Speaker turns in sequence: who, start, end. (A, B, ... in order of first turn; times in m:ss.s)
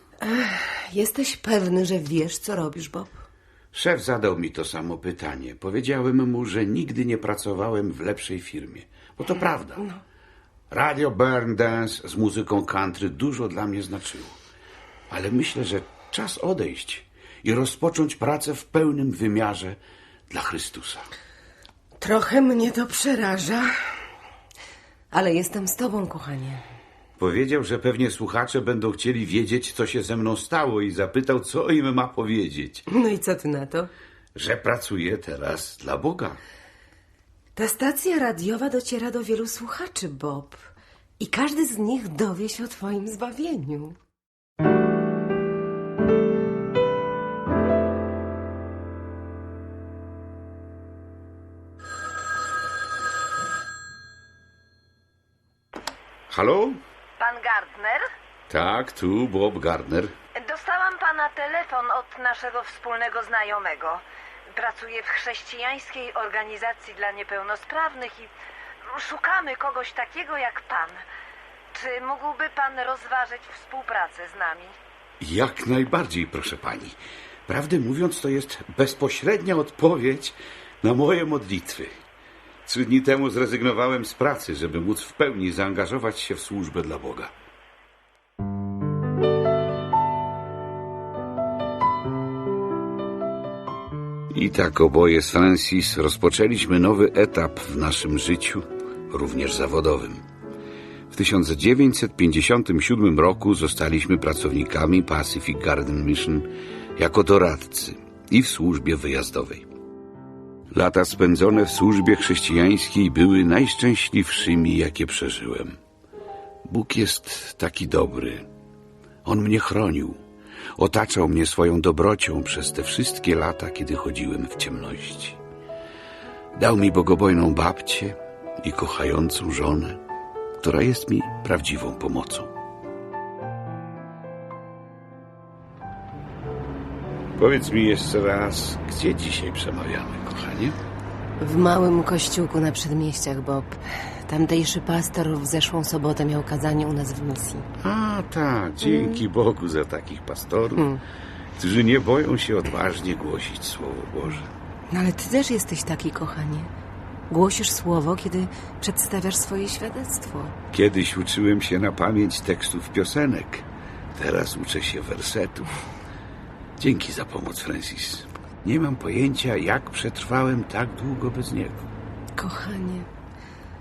0:00.2-0:03.2 A
0:03.7-0:09.8 B
0:10.7-0:14.4 B
0:15.1-0:19.8 B
0:20.3-0:21.0 B
0:22.0-0:23.7 A
0:25.1-0:26.6 A
0:27.2-0:32.8 B
0:32.9-0:33.9 A
0:34.3-0:36.4 B
0:37.6-0:40.6 A
0:41.2-0:44.0 A
0:56.3-0:56.8 B
0:57.2-0:58.0 C
0:58.5-1:00.1 B
1:00.4-1:04.0 C
1:04.5-1:08.3 C
1:08.9-1:11.0 C
1:11.7-1:14.7 C
1:15.2-1:21.9 B
1:22.6-1:27.3 B
1:34.3-1:40.2 B
1:41.1-1:49.6 B
1:50.7-1:55.8 B
1:56.6-1:58.5 B
1:59.2-2:00.2 B
2:00.8-2:05.4 B
2:06.5-2:10.0 B
2:10.6-2:12.5 B
2:17.4-2:20.8 B
2:21.4-2:27.7 A
2:27.8-2:30.9 B
2:28.8-2:29.2 A
2:30.8-2:31.0 A
2:31.6-2:34.5 B
2:34.9-2:36.7 A
2:37.3-2:40.6 A
2:40.7-2:45.7 B
2:46.8-2:51.9 B
2:52.4-2:53.1 A